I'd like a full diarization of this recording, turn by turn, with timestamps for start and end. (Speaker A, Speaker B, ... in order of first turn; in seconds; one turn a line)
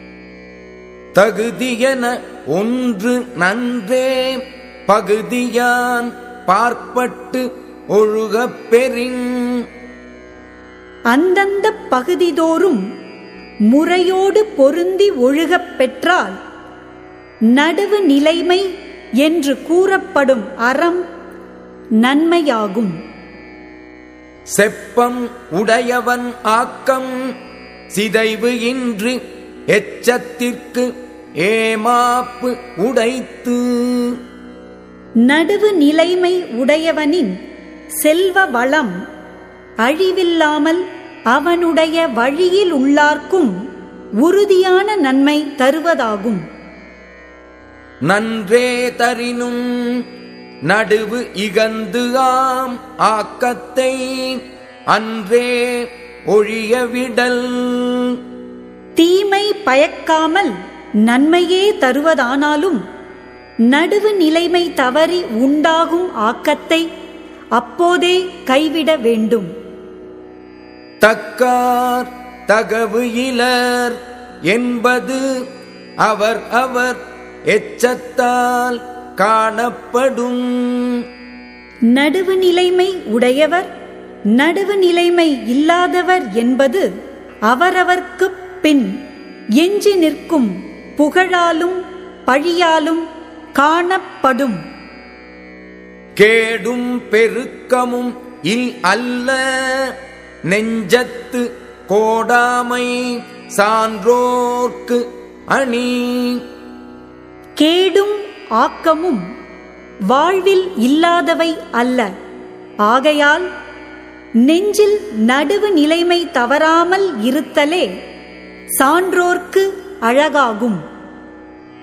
Speaker A: 1.1-9.7
Speaker B: 11.1-12.8
Speaker B: 13.7-16.4
Speaker B: 17.5-18.6
Speaker B: 19.2-21.0
Speaker B: 22.0-23.0
Speaker A: 24.5-27.1
Speaker A: 27.9-29.2
Speaker A: 29.7-30.9
Speaker A: 31.4-34.2
Speaker B: 35.3-37.3
Speaker B: 38.0-38.9
Speaker B: 39.8-43.5
Speaker B: 44.2-46.4
Speaker A: 48.1-50.0
Speaker A: 50.7-58.2
Speaker B: 59.0-60.5
Speaker B: 61.1-62.8
Speaker B: 63.7-66.8
Speaker B: 67.5-69.5
Speaker A: 71.0-75.2
Speaker A: 76.0-81.0
Speaker B: 81.9-83.7
Speaker B: 84.3-86.9
Speaker B: 87.5-89.0
Speaker B: 89.6-93.0
Speaker B: 93.5-94.6
Speaker A: 96.2-99.9
Speaker A: 100.5-106.4
Speaker B: 107.6-109.2
Speaker B: 110.1-112.1
Speaker B: 112.8-113.5
Speaker B: 114.5-117.9
Speaker B: 118.7-120.8